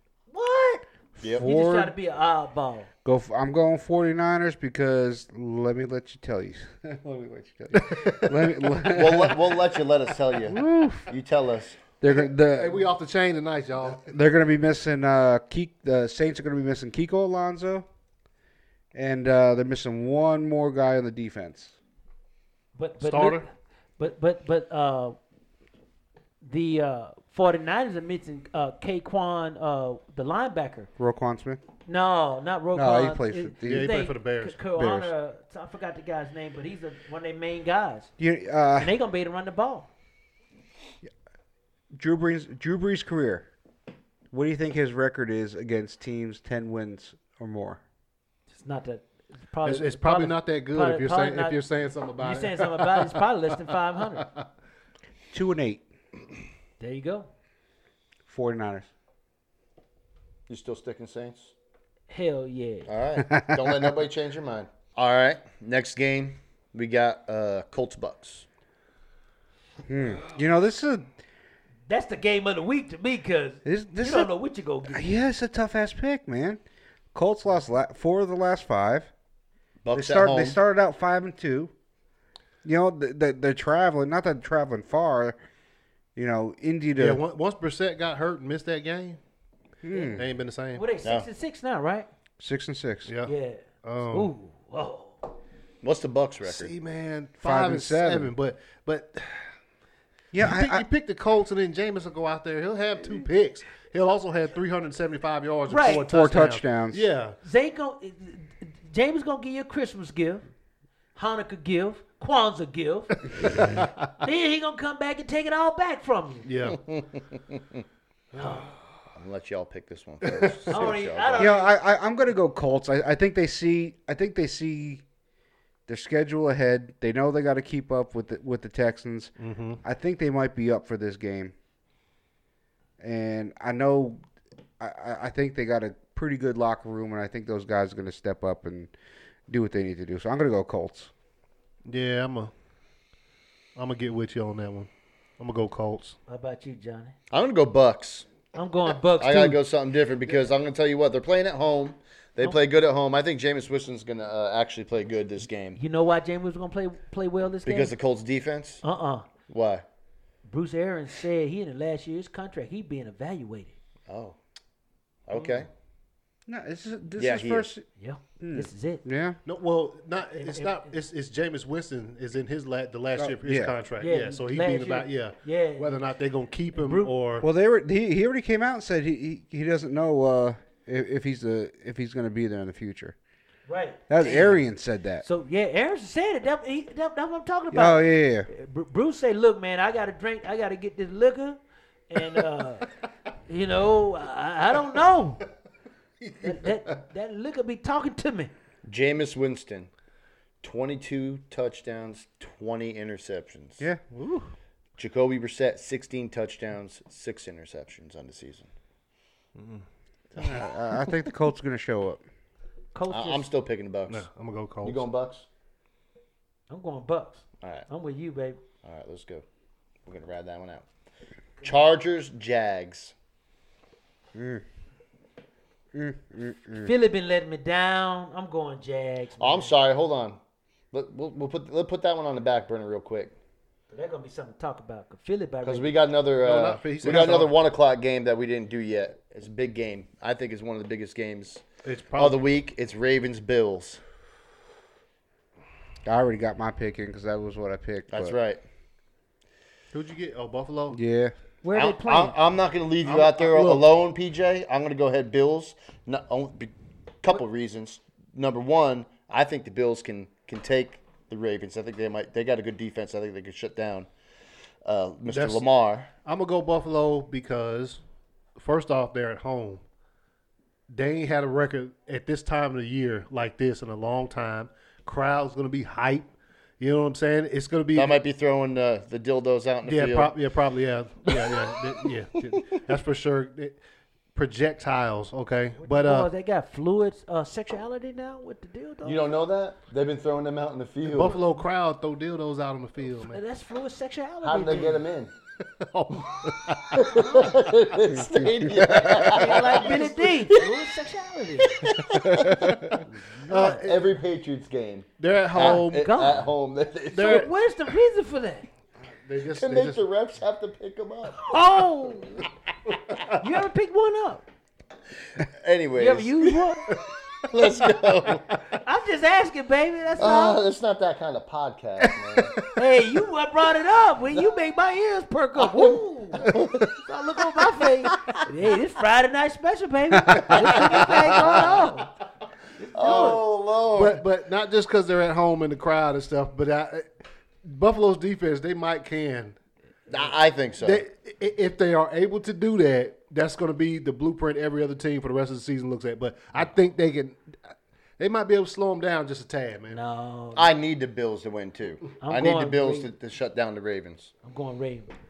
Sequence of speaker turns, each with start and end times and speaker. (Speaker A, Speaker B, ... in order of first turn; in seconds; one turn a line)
Speaker A: 0.3-2.9
Speaker B: 1.2-1.9
Speaker B: 3.0-9.6
Speaker C: 7.7-8.6
Speaker D: 8.9-11.8
Speaker B: 10.5-11.1
Speaker B: 12.0-12.9
Speaker C: 12.0-14.1
Speaker B: 13.8-17.9
Speaker B: 18.9-21.7
Speaker A: 22.7-23.5
Speaker C: 23.0-23.4
Speaker A: 24.0-25.2
Speaker A: 26.4-30.9
Speaker B: 31.0-31.6
Speaker A: 31.9-38.1
Speaker B: 32.7-34.0
Speaker C: 33.6-34.6
Speaker B: 34.7-35.1
Speaker B: 38.2-38.9
Speaker A: 38.8-39.9
Speaker B: 41.9-43.5
Speaker B: 44.3-47.8
Speaker A: 48.5-51.6
Speaker C: 49.6-53.2
Speaker A: 52.2-54.3
Speaker C: 54.2-54.5
Speaker B: 55.3-55.8
Speaker A: 56.8-57.3
Speaker B: 58.3-58.9
Speaker D: 60.5-61.5
Speaker A: 62.1-62.9
Speaker D: 62.9-68.4
Speaker B: 63.2-63.9
Speaker B: 69.9-71.1
Speaker A: 71.9-75.1
Speaker B: 73.6-74.3
Speaker B: 74.9-76.6
Speaker B: 77.1-79.1
Speaker D: 79.8-80.6
Speaker B: 79.9-81.7
Speaker B: 82.6-85.4
Speaker B: 86.2-87.2
Speaker C: 87.0-89.2
Speaker B: 89.8-90.2
Speaker A: 89.9-90.2
Speaker C: 90.1-90.8
Speaker A: 90.7-92.1
Speaker B: 92.4-93.1
Speaker C: 93.0-94.3
Speaker A: 93.2-95.3
Speaker D: 95.8-96.7
Speaker C: 96.4-99.5
Speaker B: 97.4-98.3
Speaker B: 100.3-100.8
Speaker C: 100.4-107.4
Speaker A: 105.7-106.0
Speaker B: 105.8-107.1
Speaker A: 107.4-110.4
Speaker A: 111.1-116.5
Speaker C: 113.4-113.9
Speaker C: 116.4-116.8
Speaker D: 116.8-117.6
Speaker A: 118.3-118.8
Speaker D: 119.1-121.5
Speaker C: 120.2-120.8
Speaker A: 120.7-121.7
Speaker B: 121.4-125.0
Speaker B: 125.9-131.5
Speaker C: 129.4-129.8
Speaker B: 133.0-134.2
Speaker B: 134.8-138.9
Speaker B: 139.5-141.1
Speaker C: 141.8-142.5
Speaker C: 143.8-146.2
Speaker A: 146.3-147.1
Speaker D: 147.3-148.3
Speaker A: 148.5-149.6
Speaker D: 149.2-155.8
Speaker A: 155.8-157.9
Speaker D: 157.7-158.8
Speaker A: 158.8-159.3
Speaker D: 159.5-159.8
Speaker A: 160.4-163.7
Speaker D: 164.1-164.4
Speaker D: 165.3-165.7
Speaker B: 166.5-167.8
Speaker D: 167.2-167.7
Speaker A: 168.0-169.0
Speaker B: 168.4-169.4
Speaker C: 169.4-177.5
Speaker A: 170.3-170.9
Speaker B: 173.2-173.7
Speaker A: 174.0-176.0
Speaker A: 176.8-177.1
Speaker B: 177.4-183.1
Speaker A: 183.7-184.6
Speaker B: 184.1-185.2
Speaker A: 185.2-191.6
Speaker B: 187.7-188.5
Speaker A: 192.1-192.8
Speaker A: 193.5-195.4
Speaker C: 196.2-196.8
Speaker A: 196.4-198.5
Speaker D: 198.8-199.9
Speaker D: 200.6-203.8
Speaker C: 204.1-204.5
Speaker D: 205.0-208.7
Speaker C: 209.6-209.8
Speaker B: 210.3-212.2
Speaker A: 212.9-213.4
Speaker D: 213.1-214.2
Speaker C: 214.1-215.0
Speaker D: 214.8-215.4
Speaker A: 216.7-218.6
Speaker D: 217.6-217.9
Speaker D: 218.8-219.4
Speaker D: 220.1-220.8
Speaker D: 221.6-223.1
Speaker B: 224.3-224.6
Speaker B: 225.9-226.9
Speaker A: 226.8-229.7
Speaker D: 229.4-230.4
Speaker D: 230.9-233.3
Speaker A: 233.9-235.9
Speaker D: 235.6-241.6
Speaker C: 236.4-237.5
Speaker C: 241.8-242.4
Speaker D: 242.2-244.0
Speaker B: 246.0-248.3
Speaker D: 248.1-248.6
Speaker C: 249.9-251.0
Speaker B: 250.9-251.3
Speaker A: 251.6-252.3
Speaker D: 251.7-264.1
Speaker C: 253.0-253.8
Speaker D: 264.8-266.1
Speaker C: 265.3-265.7
Speaker C: 266.2-268.0
Speaker C: 268.6-269.8
Speaker C: 270.9-278.2
Speaker D: 277.9-280.4
Speaker C: 279.8-283.8
Speaker D: 281.3-281.9
Speaker C: 284.3-286.3
Speaker A: 285.8-289.3
Speaker D: 289.0-291.4
Speaker C: 291.1-293.4
Speaker A: 293.2-295.0
Speaker D: 294.4-295.3
Speaker C: 295.6-297.5
Speaker D: 296.9-300.7
Speaker B: 298.1-299.4
Speaker A: 299.3-301.8
Speaker C: 299.4-300.1
Speaker D: 301.7-302.9
Speaker B: 302.1-302.9
Speaker A: 303.0-303.9
Speaker C: 303.5-304.1
Speaker D: 303.6-307.5
Speaker C: 305.2-306.1
Speaker A: 305.6-306.5
Speaker C: 307.1-307.5
Speaker A: 307.1-308.7
Speaker C: 309.2-310.0
Speaker D: 309.5-311.5
Speaker A: 311.3-312.5
Speaker A: 313.4-314.4
Speaker D: 315.4-318.5
Speaker A: 315.9-316.9
Speaker A: 318.8-320.6
Speaker D: 320.2-322.6
Speaker C: 322.4-322.7
Speaker A: 322.8-332.1
Speaker D: 325.6-327.0
Speaker B: 330.1-330.6
Speaker C: 330.4-331.8
Speaker D: 330.7-331.6
Speaker A: 332.8-333.4
Speaker D: 332.9-334.2
Speaker C: 333.9-339.6
Speaker D: 340.1-341.0
Speaker C: 340.8-347.6
Speaker C: 348.2-350.0
Speaker A: 349.9-350.7
Speaker D: 350.5-354.3
Speaker A: 352.2-353.1
Speaker A: 354.4-355.1